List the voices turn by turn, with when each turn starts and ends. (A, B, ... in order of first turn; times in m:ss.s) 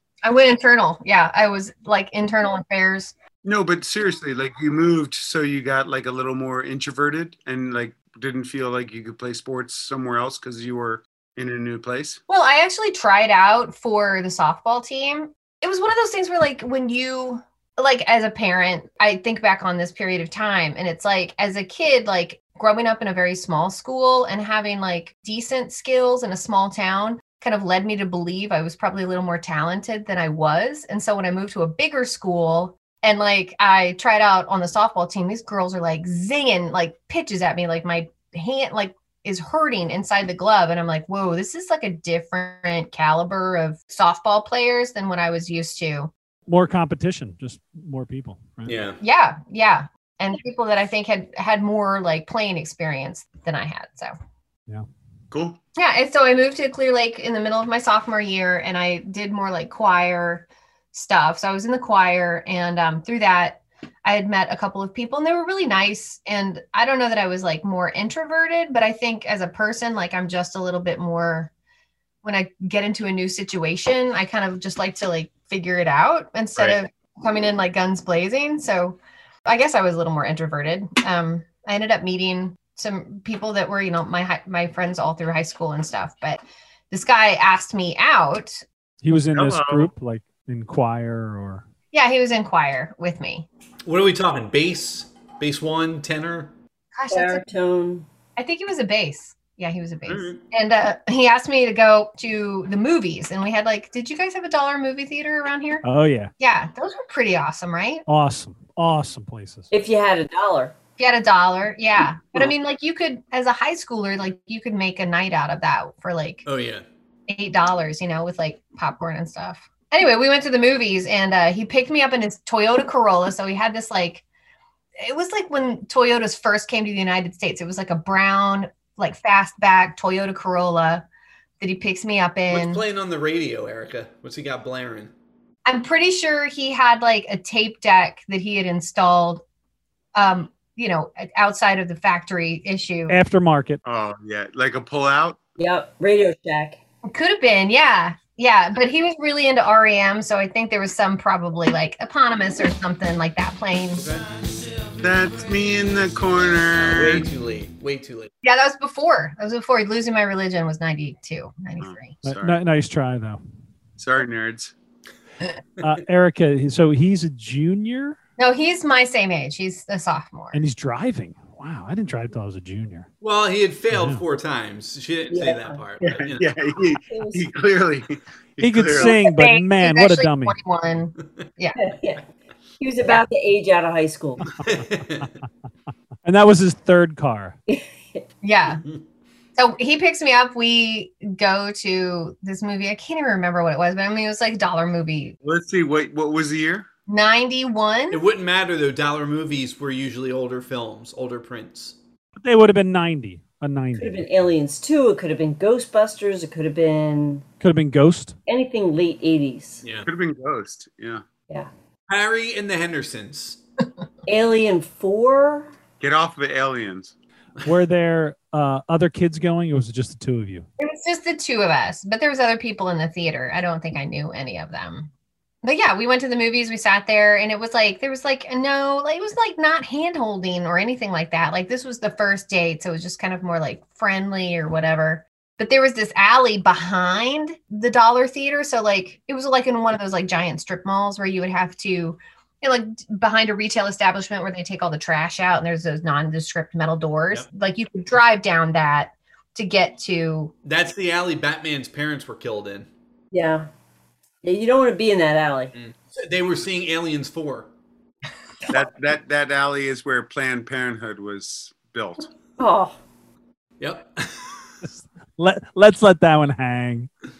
0:00.2-0:03.1 A
0:03.4-0:12.2 B
0:12.3-0:46.1 A
0:46.5-0:48.8 C
0:48.6-0:49.0 D
0:49.0-0:54.1 A
0:55.3-0:55.6 B
0:55.8-1:11.5 A
1:12.2-1:28.6 A
1:29.0-1:31.6 C
1:29.3-1:29.9 B
1:31.9-1:33.5 A
1:33.9-1:36.5 D
1:37.0-1:37.4 A
1:37.1-1:38.0 E
1:38.4-1:45.8 A
1:40.1-1:40.4 D
1:45.8-1:46.3 C
1:46.4-1:48.0 A
1:48.1-1:49.7 C
1:49.7-1:50.8 E
1:51.0-1:56.4 A
1:56.4-1:56.8 D
1:57.3-2:04.2 A
2:05.0-2:11.0 A
2:11.6-2:12.8 A
2:12.5-2:15.1 D
2:15.6-2:19.4 A
2:20.2-2:23.2 A
2:23.1-2:23.8 C
2:23.8-2:25.4 B
2:25.6-2:26.8 E
2:27.1-2:34.1 A
2:34.0-2:34.3 D
2:35.0-2:37.3 B
2:36.7-2:38.3 D
2:38.4-2:42.1 A
2:41.8-2:42.6 B
2:42.2-2:43.4 C
2:44.0-2:44.7 B
2:45.8-2:48.2 C
2:48.4-2:50.6 A
2:50.5-2:53.1 C
2:53.2-2:56.5 D
2:53.9-2:54.2 C
2:55.3-2:55.8 E
2:56.0-2:59.2 B
2:57.1-2:57.5 E
2:58.6-3:00.6 C
2:59.0-3:01.8 A
3:01.8-3:02.3 E
3:02.8-3:04.6 E
3:04.6-3:05.3 C
3:04.6-3:05.3 D
3:06.2-3:07.6 C
3:07.7-3:08.2 E
3:08.4-3:08.9 A
3:09.6-3:15.4 A
3:15.4-3:16.9 B
3:17.1-3:18.2 A
3:18.1-3:22.0 D
3:22.4-3:24.3 C
3:24.0-3:27.4 E
3:27.6-3:28.4 C
3:28.5-3:29.8 E
3:30.0-3:31.3 B
3:32.1-3:33.6 D
3:34.3-3:35.7 E
3:36.0-3:37.1 B
3:37.6-3:40.7 C
3:40.8-3:45.1 A
3:45.6-4:10.5 A
4:10.6-4:12.9 D
4:13.3-4:13.7 E
4:14.4-4:15.7 E
4:15.7-4:17.7 D
4:18.7-4:22.3 B
4:22.6-4:23.0 E
4:23.8-4:24.7 D
4:24.8-4:27.1 C